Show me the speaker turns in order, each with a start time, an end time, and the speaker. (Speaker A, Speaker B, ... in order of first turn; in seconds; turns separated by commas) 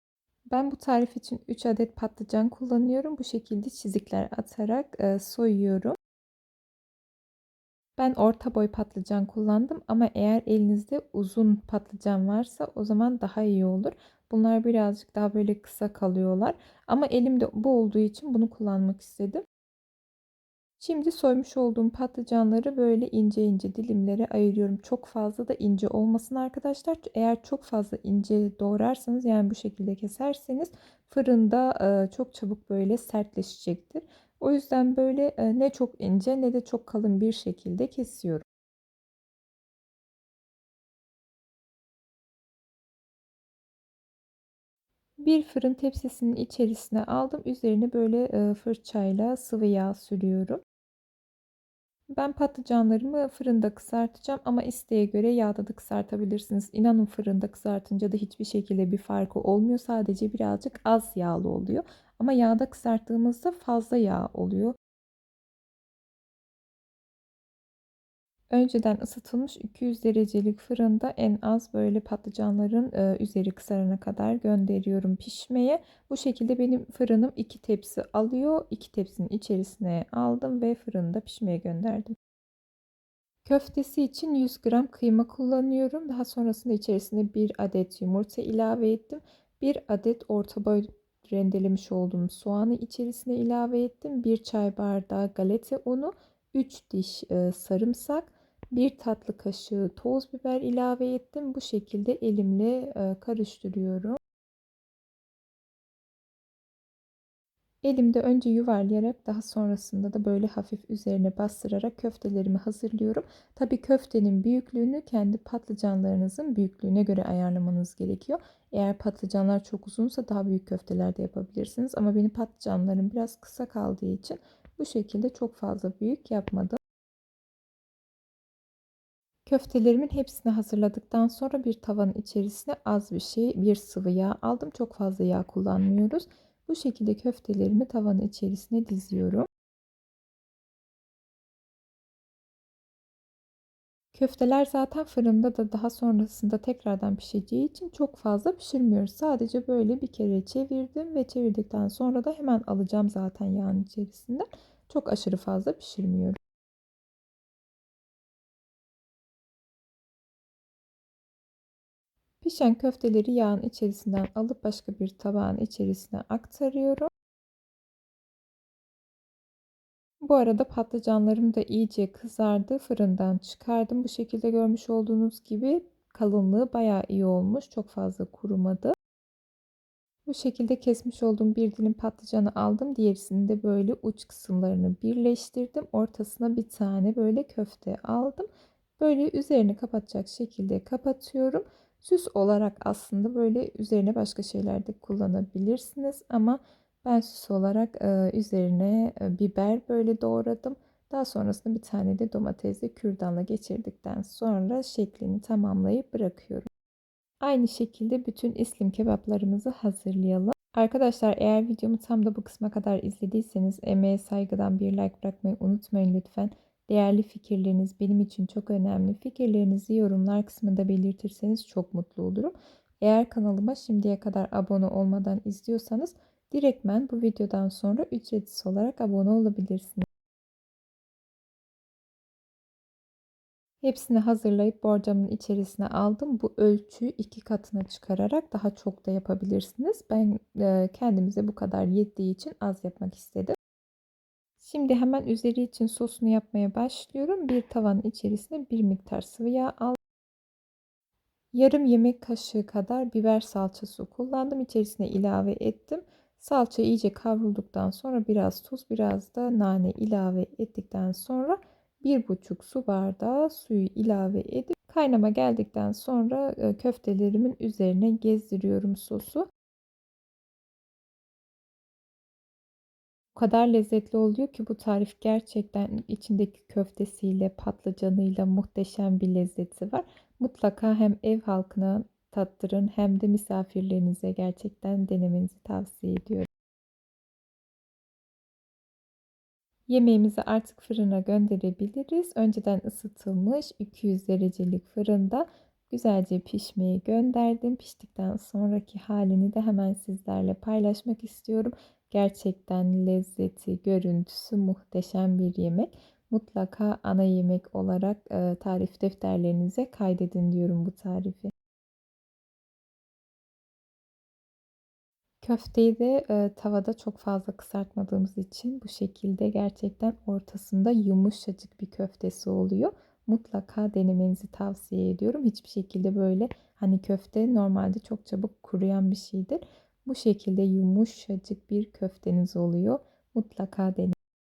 Speaker A: 0.5-6.0, Speaker A: 8.0-19.4, Speaker A: 20.8-38.4, Speaker A: 45.2-50.6, Speaker A: 52.1-64.8, Speaker A: 68.5-82.1, Speaker A: 83.5-104.2, Speaker A: 107.8-126.8, Speaker A: 129.5-139.5, Speaker A: 144.2-156.4, Speaker A: 162.4-167.1, Speaker A: 170.2-178.9, Speaker A: 180.3-188.5, Speaker A: 189.0-206.7, Speaker A: 207.4-230.1, Speaker A: 233.8-243.6, Speaker A: 244.6-250.0, Speaker A: 251.5-269.5, Speaker A: 273.4-286.5, Speaker A: 289.9-311.5, Speaker A: 315.4-334.1